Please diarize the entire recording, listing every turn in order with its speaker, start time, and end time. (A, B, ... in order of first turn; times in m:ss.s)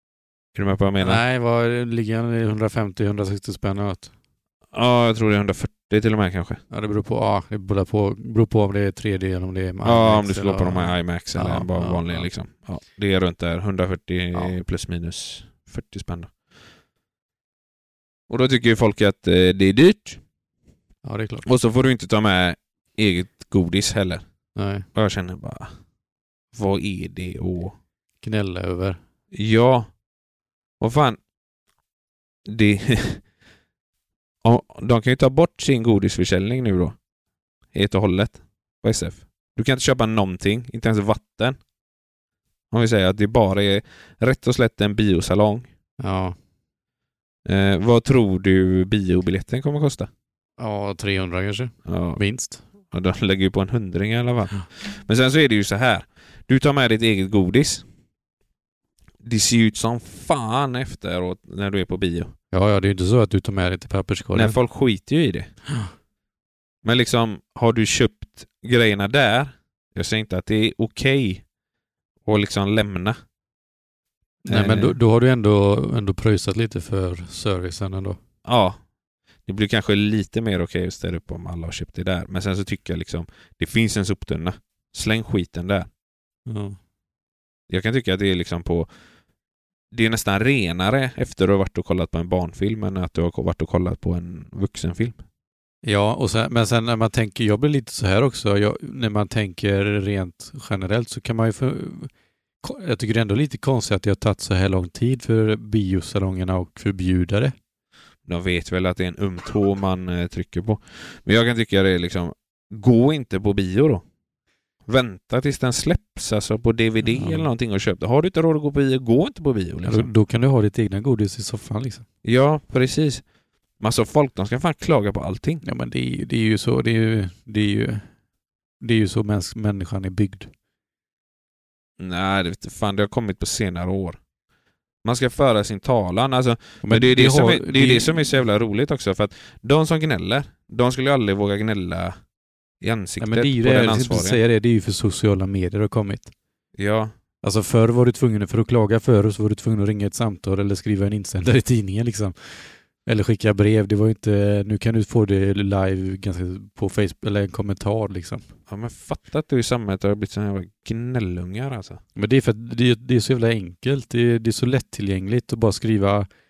0:00.5-0:01.2 A
0:01.0-0:04.1 B
0:04.7-0:06.6 A
0:06.7-0:12.3 B
0:09.8-0:16.3 A
0:18.3-0:20.2 A
0:21.0-0:21.4 B
0:21.4-0:24.2 A
0:24.5-0:24.9 B
0:24.9-0:25.7 A
0:26.5-0:27.8 A
0:28.2-0:29.0 B
0:29.3-0:29.9 A
0:30.8-0:31.2 A
0:32.4-0:33.2 A
0:34.4-0:37.0 A
0:37.7-0:41.6 A
0:42.7-0:45.7 A
0:46.0-0:46.4 B
0:47.4-0:50.1 A
0:50.6-0:52.6 B
0:51.8-0:52.2 A
0:52.8-0:57.8 A
0:59.2-1:02.3 A
1:02.5-1:04.6 B
1:04.3-1:05.5 A
1:06.8-1:11.4 A
1:12.2-1:13.2 A
1:14.4-1:15.0 A
1:14.5-1:18.2 B
1:18.4-1:18.8 A
1:19.4-1:25.9 A
1:26.5-1:26.8 B
1:27.7-1:28.9 A
1:29.9-1:35.2 A
1:35.8-1:42.1 B
1:42.6-1:47.5 B
1:48.2-1:54.0 A
1:54.8-2:00.1 A
1:57.0-1:57.5 B
1:59.8-2:02.0 B
2:02.2-2:03.2 A
2:03.8-2:05.6 A
2:05.6-2:08.1 B
2:08.8-2:10.5 B
2:12.0-2:14.2 A
2:15.0-2:22.1 A
2:16.8-2:18.3 B
2:22.8-2:24.4 A
2:23.2-2:26.3 B
2:26.8-2:27.1 A
2:27.4-2:38.4 B
2:38.7-2:42.0 A
2:42.2-2:46.3 B